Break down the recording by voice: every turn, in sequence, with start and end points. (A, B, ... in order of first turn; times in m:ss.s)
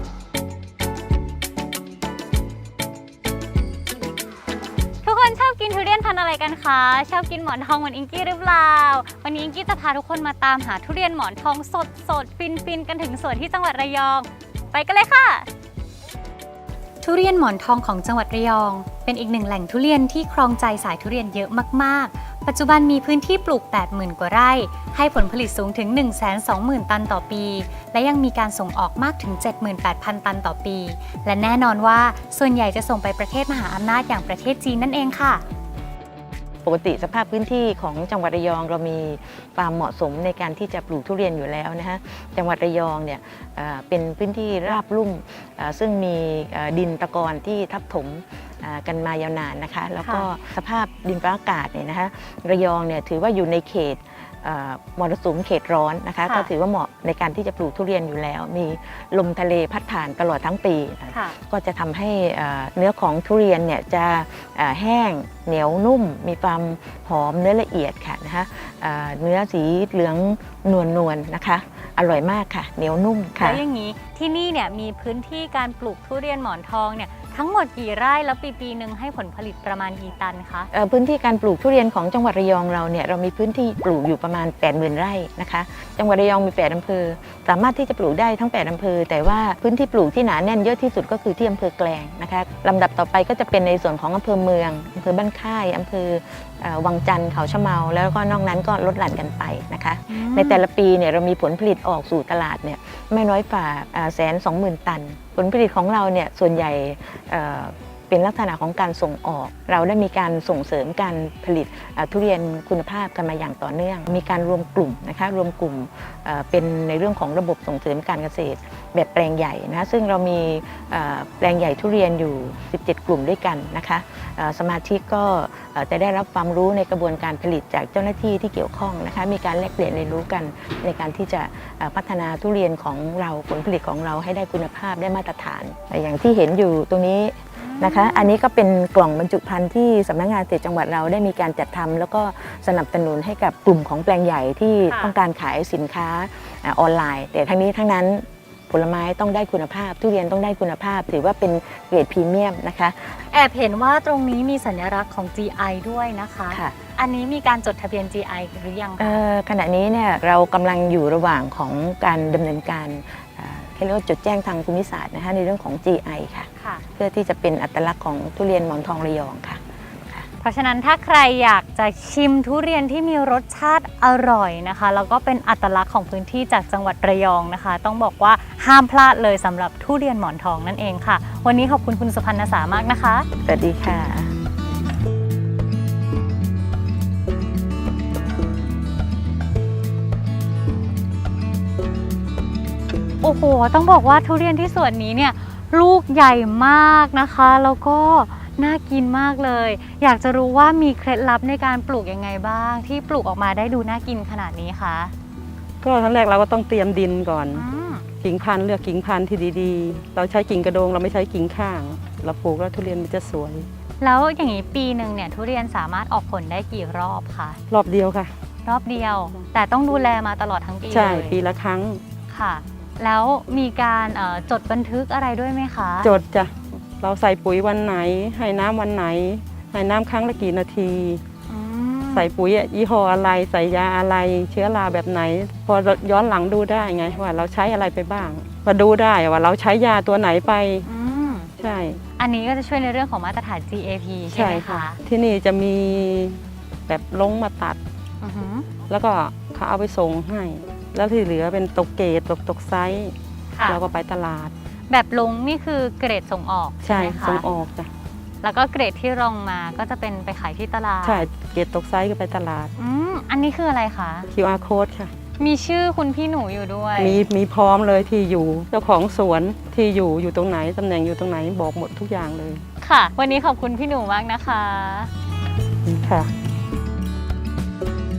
0:05.0-0:15.5 A
0:17.0-0:35.4 A
0:36.6-1:13.6 B
1:13.4-1:20.7 A
1:20.7-2:33.2 B
1:40.1-1:40.6 A
2:17.6-2:18.3 A
2:24.9-2:25.1 A
2:33.2-2:39.2 A
2:36.5-2:36.8 B
2:39.0-2:50.2 B
2:46.6-2:46.8 A
2:50.4-3:03.3 A
3:03.4-3:04.3 B
3:13.2-3:25.1 A
3:25.8-3:27.6 C
3:27.5-3:28.0 A
3:28.2-3:33.7 C
3:34.0-3:37.6 A
3:37.7-3:38.3 C
3:38.6-3:41.4 A
3:40.9-3:42.0 C
3:42.3-3:46.1 A
3:46.0-3:51.2 C
3:51.5-3:52.3 A
3:52.1-4:00.9 C
4:00.8-4:01.5 A
4:01.6-4:02.0 C
4:02.2-4:05.0 A
4:04.3-4:07.8 C
4:08.2-4:08.7 A
4:08.9-4:14.5 C
4:13.5-4:13.8 A
4:14.9-4:17.4 A
4:16.8-4:17.9 C
4:18.4-4:21.3 A
4:21.0-4:22.7 C
4:22.8-4:24.3 A
4:24.3-4:25.1 C
4:25.4-4:27.2 A
4:27.0-4:32.6 C
4:32.8-4:35.1 A
4:35.8-4:36.3 C